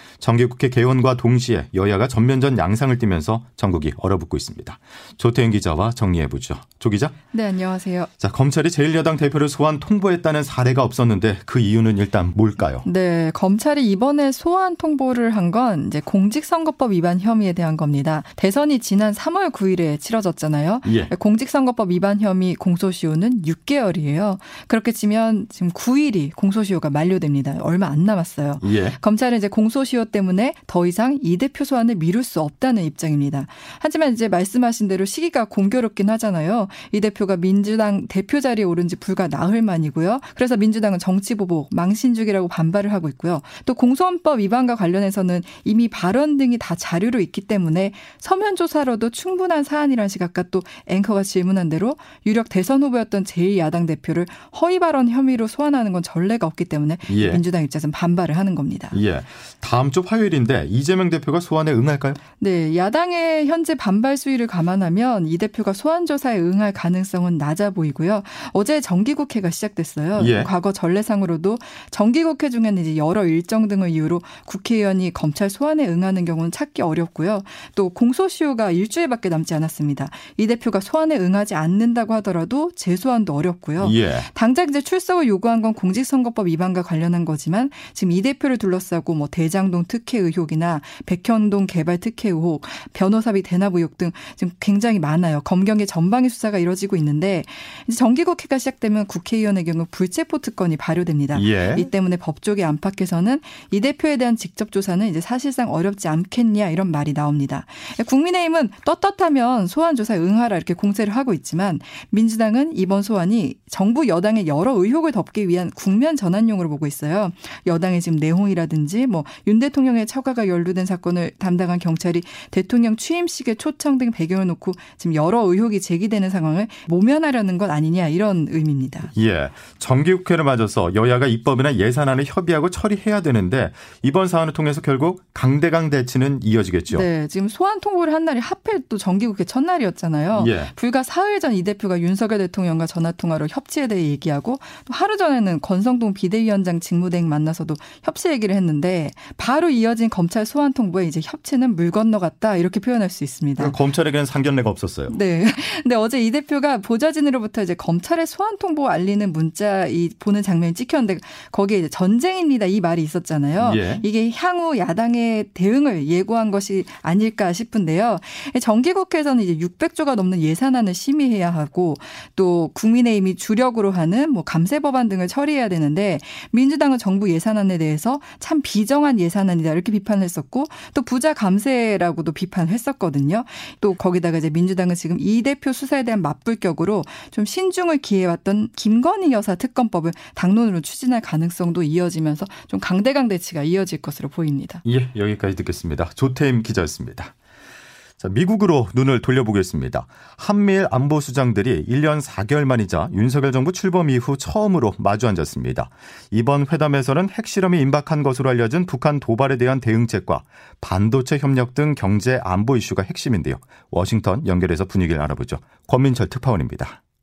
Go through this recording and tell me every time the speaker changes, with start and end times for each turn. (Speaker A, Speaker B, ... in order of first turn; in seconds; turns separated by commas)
Speaker A: 0.2-7.2, Speaker B: 7.3-8.1, Speaker A: 8.2-12.8, Speaker B: 12.8-59.0, Speaker A: 20.8-21.1, Speaker A: 28.6-29.0, Speaker A: 57.1-57.4, Speaker A: 58.9-62.2, Speaker B: 62.4-129.1, Speaker A: 70.2-70.5, Speaker A: 83.8-84.3, Speaker A: 101.3-101.9, Speaker A: 129.1-137.1, Speaker B: 136.9-153.8, Speaker A: 140.3-140.7, Speaker A: 153.6-155.2, Speaker B: 155.1-194.8, Speaker A: 163.6-164.0, Speaker A: 194.8-197.3, Speaker A: 198.2-217.0